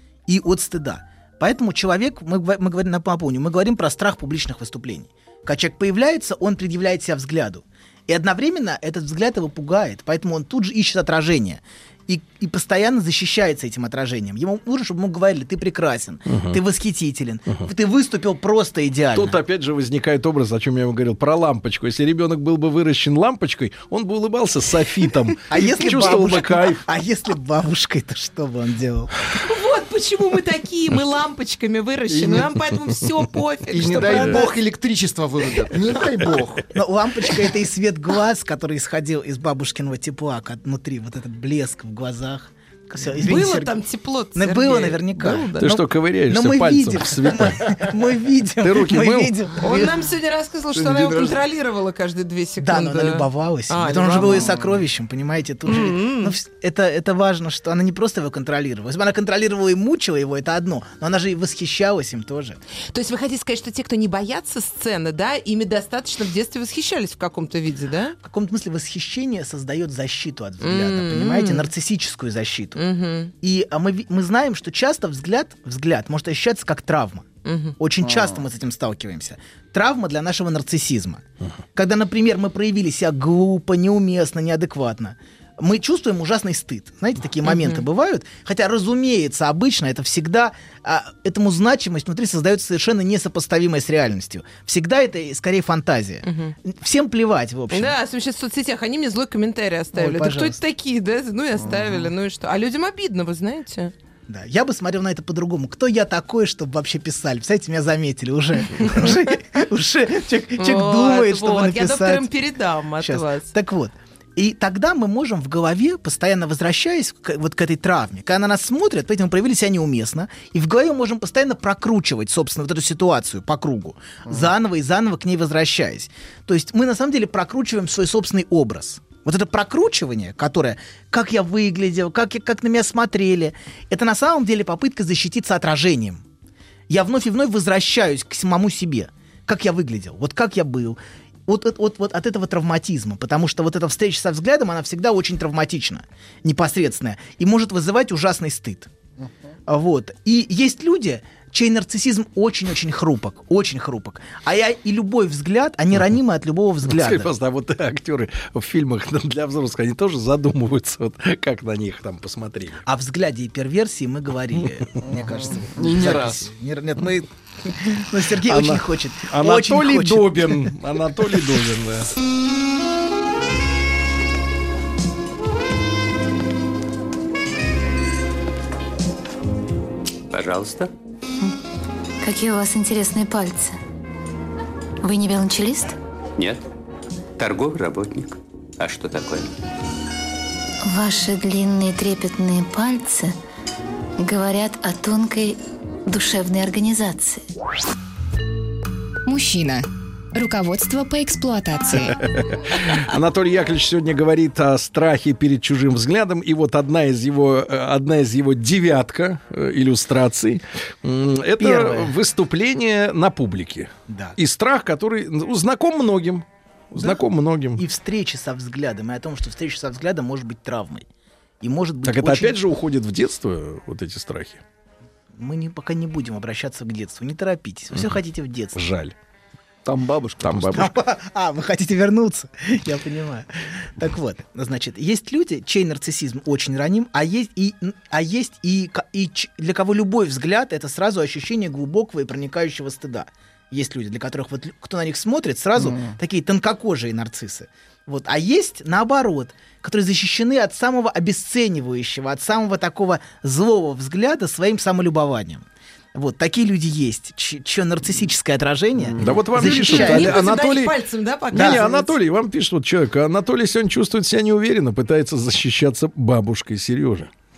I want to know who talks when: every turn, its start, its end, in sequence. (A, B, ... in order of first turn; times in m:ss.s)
0:00.3-0:19.4 A
0:16.3-0:16.6 B
0:19.1-0:26.8 B
0:25.5-0:29.1 A
0:29.3-0:34.5 C
0:32.1-0:32.6 D
0:33.7-0:36.8 D
0:34.0-0:34.5 A
0:36.7-0:43.8 A
0:43.2-0:45.7 C
0:44.4-0:49.9 A
0:45.6-0:47.9 B
0:48.6-0:49.4 B
0:49.6-0:54.5 C
0:50.8-0:51.4 D
0:52.6-1:02.6 A
0:54.2-0:54.7 D
0:55.7-0:56.4 C
1:02.9-1:08.2 C
1:08.2-1:12.8 A
1:10.6-1:11.7 C
1:12.8-1:13.3 C
1:13.4-1:17.3 A
1:17.4-1:17.8 C
1:17.8-1:21.2 A
1:18.0-1:18.4 D
1:21.8-1:38.0 A
1:27.4-1:27.8 C
1:36.2-1:36.6 C
1:37.7-1:43.9 C
1:39.9-1:40.6 A
1:41.6-1:42.1 D
1:44.3-1:52.3 A
1:48.8-1:49.1 C
1:50.6-1:53.5 C
1:53.0-2:16.2 A
2:16.9-2:28.9 A
2:29.7-2:37.3 A
2:36.8-2:42.8 B
2:42.8-2:50.7 A
2:45.0-2:46.5 D
2:48.4-2:52.1 B
3:00.3-3:00.9 E
3:02.2-3:03.8 F
3:05.0-3:06.0 F
3:06.4-3:06.6 E
3:07.4-3:09.6 E
3:10.8-3:13.4 F
3:14.2-3:17.4 F
3:19.2-3:22.2 G
3:22.3-3:37.8 B
3:31.6-3:32.2 A
3:34.1-3:34.4 A
3:37.8-3:41.0 A
3:41.6-3:42.6 A
3:42.0-3:44.6 B
3:45.4-3:48.8 A
3:47.9-3:48.2 B
3:48.8-3:49.2 B
3:49.8-3:50.9 D
3:50.4-3:50.9 B
3:50.7-4:20.4 A
4:05.8-4:06.1 D
4:19.0-4:19.5 D
4:19.2-4:21.0 B
4:19.6-4:22.1 C
4:21.5-4:27.3 B
4:21.5-4:21.9 A